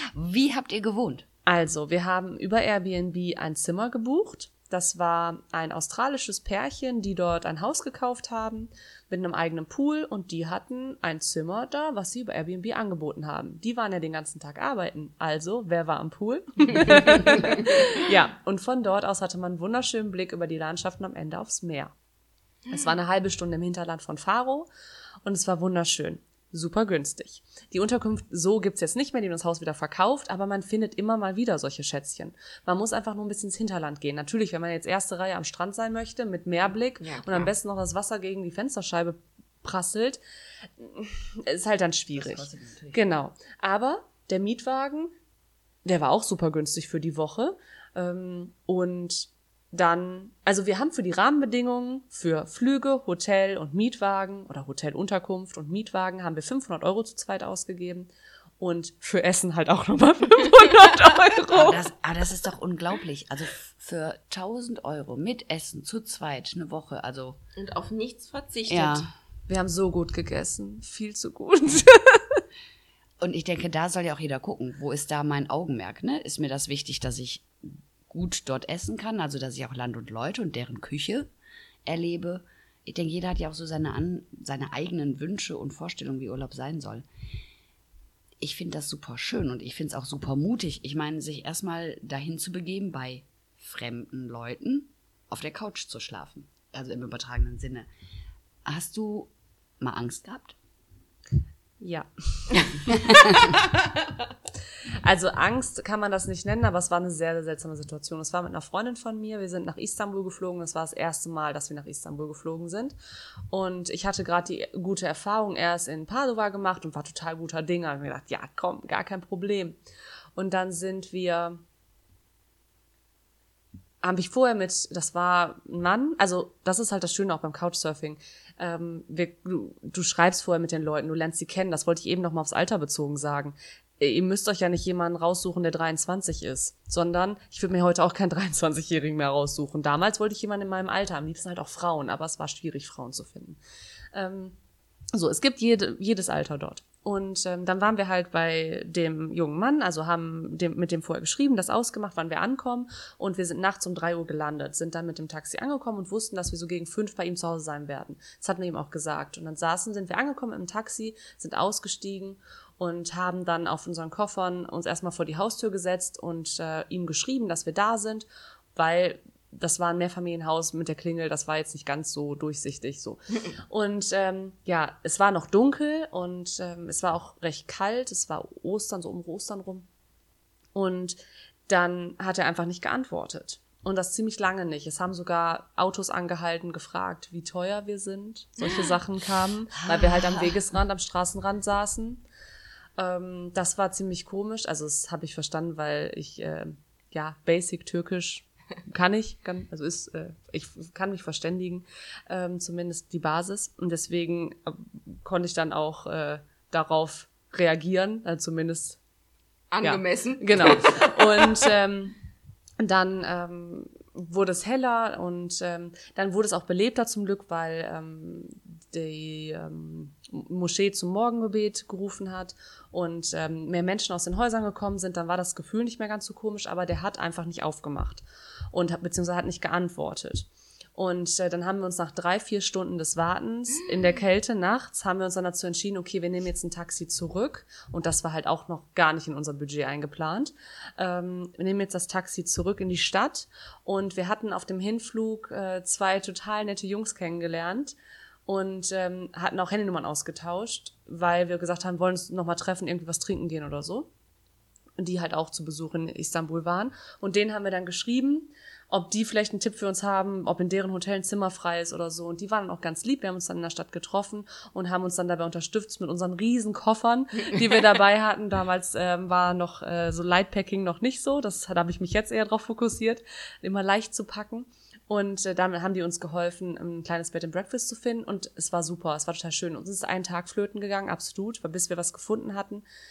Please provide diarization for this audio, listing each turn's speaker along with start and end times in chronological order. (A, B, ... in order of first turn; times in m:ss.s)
0:00.1-0:01.3 A
0:01.5-0:21.9 B
0:16.8-0:17.6 C
0:22.7-0:22.9 C
0:22.7-0:24.7 B
0:25.2-0:40.2 B
0:37.0-0:37.5 C
0:40.8-0:45.1 B
0:42.2-0:43.0 A
0:45.8-1:01.8 B
1:01.5-1:07.4 A
1:07.6-1:09.1 C
1:08.7-1:09.1 A
1:09.5-1:12.4 B
1:13.2-1:21.3 A
1:21.9-1:27.0 A
1:28.4-1:37.9 A
1:38.6-1:40.6 A
1:41.8-1:42.7 B
1:43.4-1:43.8 C
1:45.0-1:53.0 B
1:53.5-1:59.8 B
2:00.4-2:01.6 B
2:04.0-2:23.6 B
2:24.1-2:24.6 B
2:25.1-2:59.9 B
3:00.7-3:12.2 B
3:09.8-3:10.5 A
3:13.0-3:29.0 B
3:29.7-3:31.6 C
3:29.8-3:32.2 B
3:32.8-4:14.1 B
4:15.0-4:42.8 B